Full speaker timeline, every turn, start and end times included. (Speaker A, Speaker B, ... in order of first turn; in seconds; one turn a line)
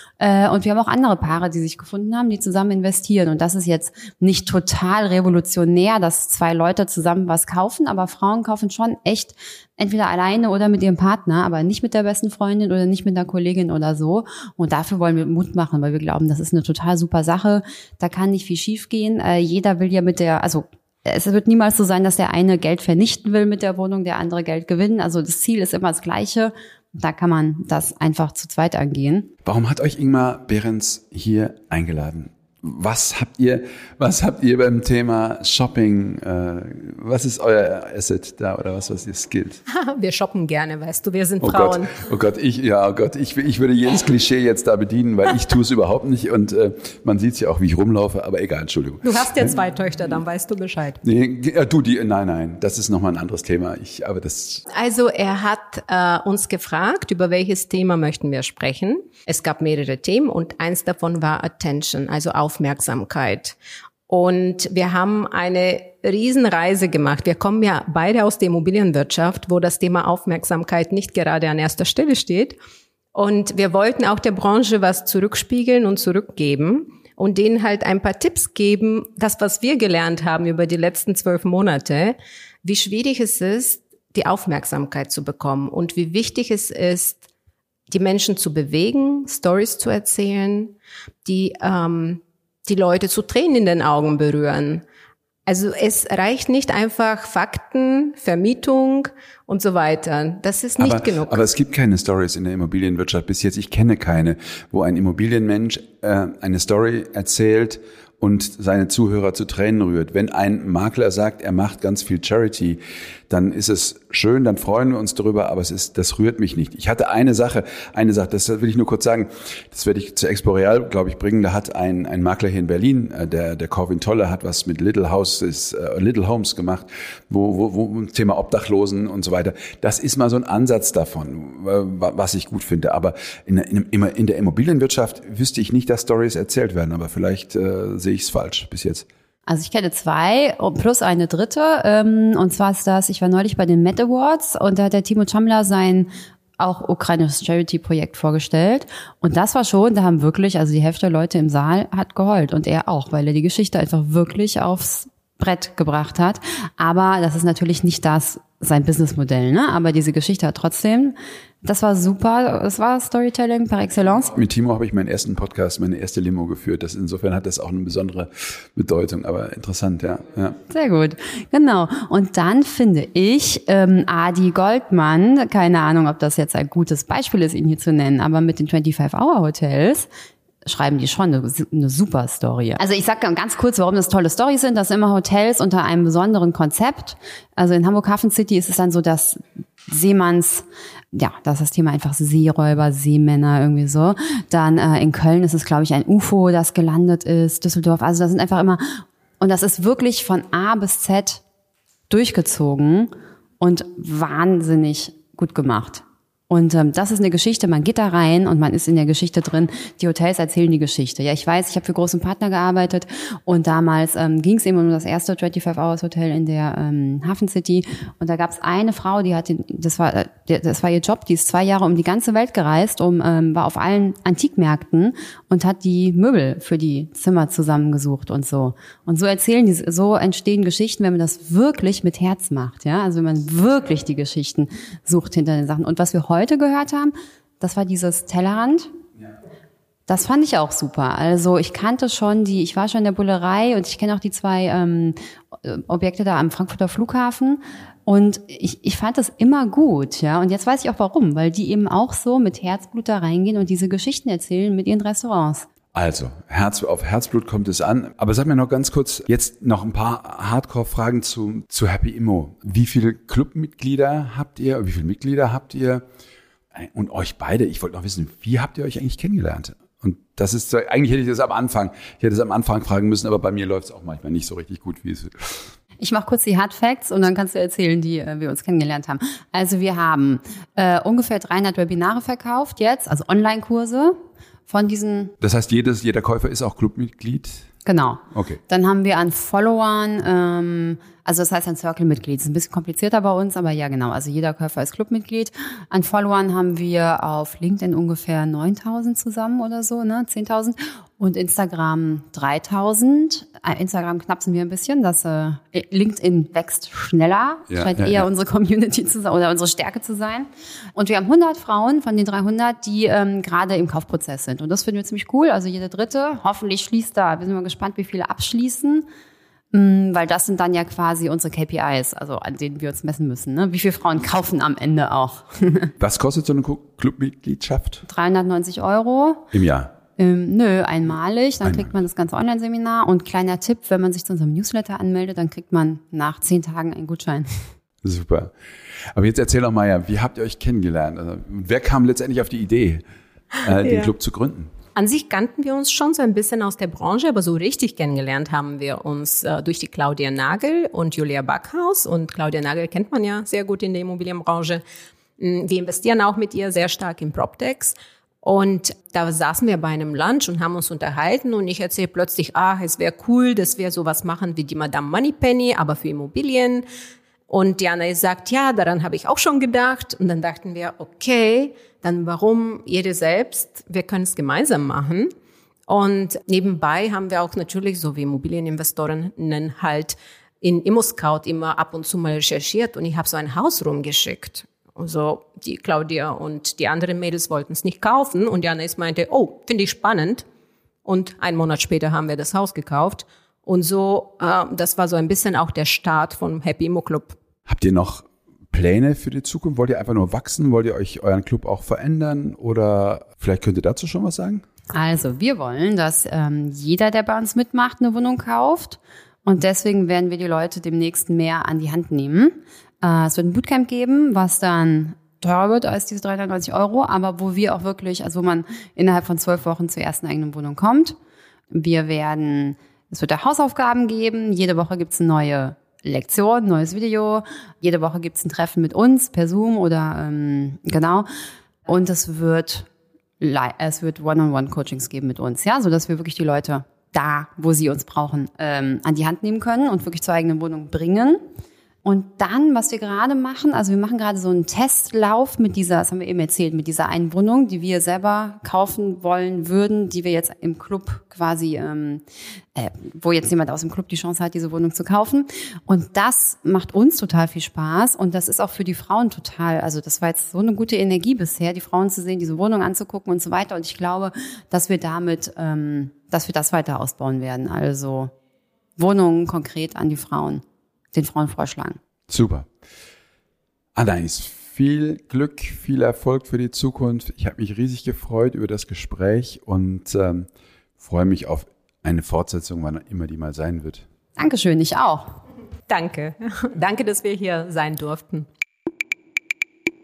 Speaker A: 0.2-29.3
Speaker B: 29.4-39.6
Speaker C: 39.7-42.0
Speaker B: 41.4-49.6
Speaker C: 49.0-51.0
Speaker B: 51.0-54.6
Speaker C: 54.7-63.5
Speaker C: 64.1-72.6
Speaker C: 73.1-87.2
Speaker C: 87.9-94.8
Speaker C: 95.5-101.5
Speaker B: 100.8-139.1
Speaker A: 139.5-164.3
Speaker B: 164.3-170.6
Speaker A: 170.7-180.1
Speaker A: 180.6-201.4
Speaker A: 202.1-238.9
Speaker A: 240.1-255.7
Speaker B: 255.9-266.0
Speaker B: 266.7-275.7
Speaker A: 276.0-285.3
Speaker B: 285.4-287.7
Speaker A: 287.8-319.1
Speaker B: 288.3-288.6
Speaker B: 307.7-308.2
Speaker A: 319.7-325.9
Speaker B: 326.0-328.0
Speaker A: 328.1-329.5
Speaker B: 329.5-329.9
Speaker A: 330.2-337.5
Speaker B: 331.6-331.9
Speaker B: 338.0-338.5
Speaker B: 339.1-343.0
Speaker B: 343.6-344.7
Speaker C: 343.8-344.1
Speaker C: 344.9-354.8
Speaker C: 355.4-366.8
Speaker C: 367.5-375.3
Speaker C: 375.9-390.4
Speaker C: 391.0-397.4
Speaker B: 397.7-404.6
Speaker A: 404.9-421.1
Speaker A: 421.7-431.3
Speaker A: 431.9-432.9
Speaker A: 433.4-441.4
Speaker A: 442.0-452.2
Speaker A: 452.7-468.3
Speaker A: 469.0-472.0
Speaker B: 472.3-472.7
Speaker B: 473.9-484.1
Speaker A: 484.4-485.3
Speaker C: 485.9-488.5